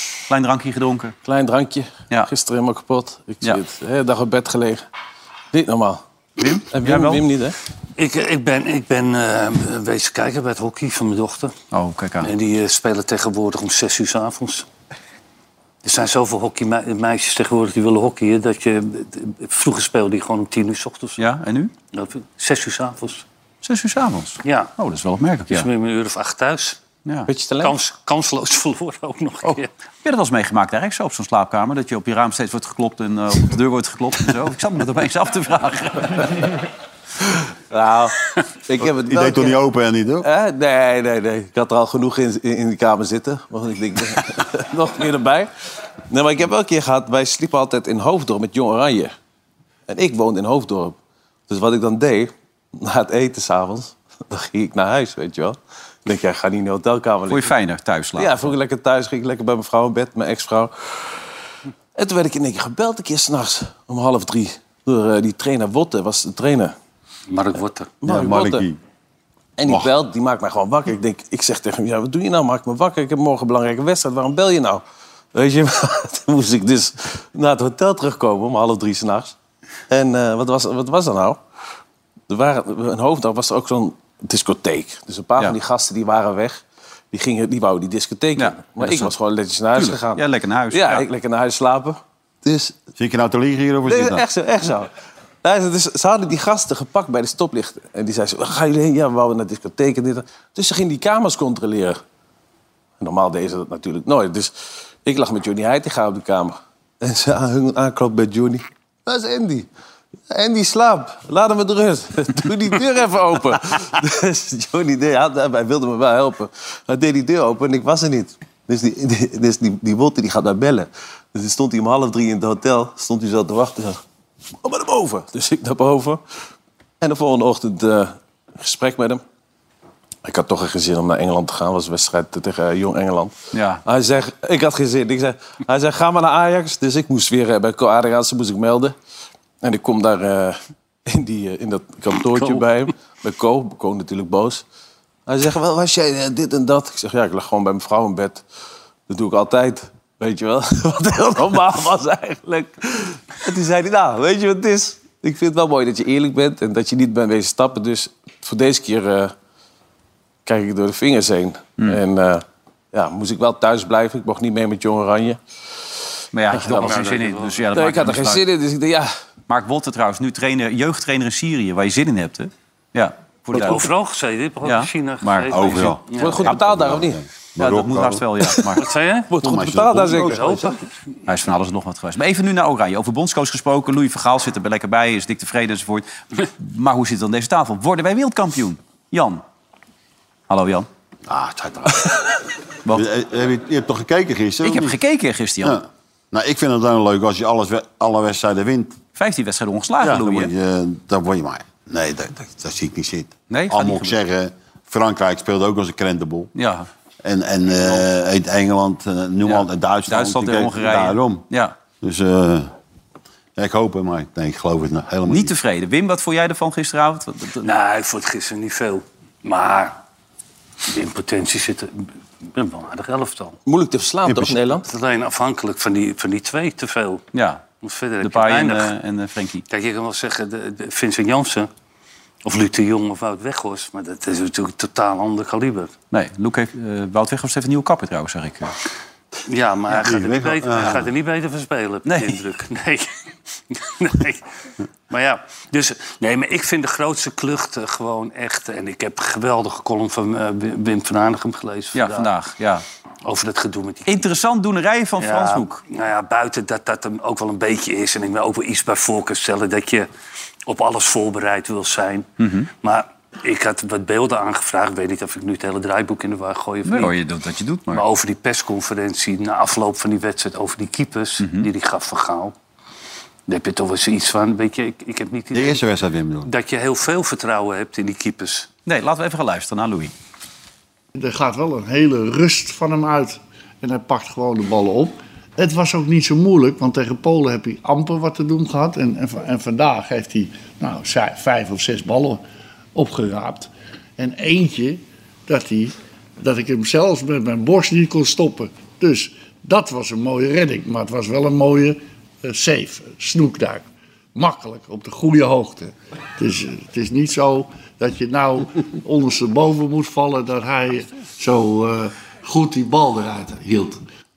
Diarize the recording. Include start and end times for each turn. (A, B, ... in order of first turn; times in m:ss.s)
0:00.3-0:01.1 A
0:01.2-0:04.8 B
0:05.5-0:06.0 B
0:06.5-0:07.2 A
0:06.7-0:07.6 B
0:08.0-0:11.6 C
0:11.7-0:12.3 A
0:12.2-0:14.7 C
0:15.8-0:21.2 C
0:21.2-0:21.7 A
0:21.9-0:23.2 C
0:23.6-0:25.7 A
0:24.4-0:24.7 C
0:25.5-0:26.8 C
0:27.1-0:27.3 A
0:27.3-0:27.8 B
0:27.6-0:29.7 C
0:30.0-0:36.6 A
0:37.7-0:39.6 B
0:38.8-0:40.3 D
0:40.2-0:45.5 B
0:46.1-0:49.2 B
0:49.9-0:51.0 B
0:51.5-0:57.6 B
0:57.3-0:58.5 A
0:58.2-1:01.2 B
1:02.0-1:06.8 B
1:07.3-1:07.9 C
1:08.0-1:08.7 B
1:08.0-1:08.8 D
1:09.6-1:14.8 B
1:15.3-1:19.4 B
1:19.9-1:21.4 B
1:22.3-1:32.0 B
1:28.4-1:29.1 A
1:29.8-1:31.1 A
1:32.4-1:34.2 D
1:33.9-1:34.9 B
1:35.4-1:42.0 B
1:43.0-1:44.5 B
1:45.0-1:49.7 B
1:50.3-2:04.0 B
2:04.6-2:06.2 B
2:07.0-2:09.2 B
2:10.2-2:13.3 B
2:13.5-2:13.8 A
2:13.8-2:19.0 B
2:19.6-2:24.6 B
2:25.3-2:28.4 B
2:29.1-2:39.3 B
2:40.5-2:45.4 B
2:46.3-2:48.4 A
2:46.5-2:47.1 B
2:46.8-2:47.6 C
2:47.7-2:49.1 B
2:49.5-2:53.9 A
2:53.5-2:56.4 C
2:54.6-2:56.0 A
2:55.5-2:58.2 D
2:56.2-2:57.2 B
2:57.6-2:58.8 A
2:58.8-2:59.3 C
2:59.3-3:00.7 B
2:59.4-3:00.7 D
3:00.2-3:00.7 C
3:01.3-3:09.4 A
3:10.5-3:10.9 A
3:11.3-3:12.1 D
3:12.9-3:15.0 D
3:14.6-3:15.8 A
3:15.6-3:19.0 D
3:19.2-3:20.5 A
3:20.0-3:26.5 D
3:23.5-3:24.2 A
3:26.6-3:26.9 A
3:27.2-3:31.5 D
3:29.5-3:31.7 A
3:32.0-3:32.7 D
3:33.6-3:35.5 D
3:35.3-3:37.7 A
3:37.6-3:40.0 C
3:40.9-3:43.6 C
3:43.7-3:44.9 B
3:44.3-3:44.6 D
3:44.9-3:47.2 C
3:47.3-3:47.6 A
3:47.8-3:48.9 C
3:48.2-3:49.6 A
3:49.7-3:51.7 C
3:52.4-3:55.9 C
3:56.1-3:58.7 A
3:59.5-4:03.1 C
3:59.9-4:01.0 D
4:02.1-4:02.4 A
4:03.7-4:04.4 C
4:05.1-4:12.3 C
4:11.9-4:12.8 A
4:13.2-4:14.2 C
4:14.1-4:15.8 A
4:15.2-4:20.1 C
4:20.7-4:22.3 C
4:22.4-4:22.7 A
4:22.8-4:27.2 C
4:26.8-4:28.0 A
4:27.9-4:32.5 C
4:31.4-4:31.7 A
4:33.5-4:35.8 C
4:35.5-4:36.5 D
4:36.5-4:38.7 C
4:38.9-4:40.1 A
4:41.2-4:52.4 E
4:53.0-5:14.0 E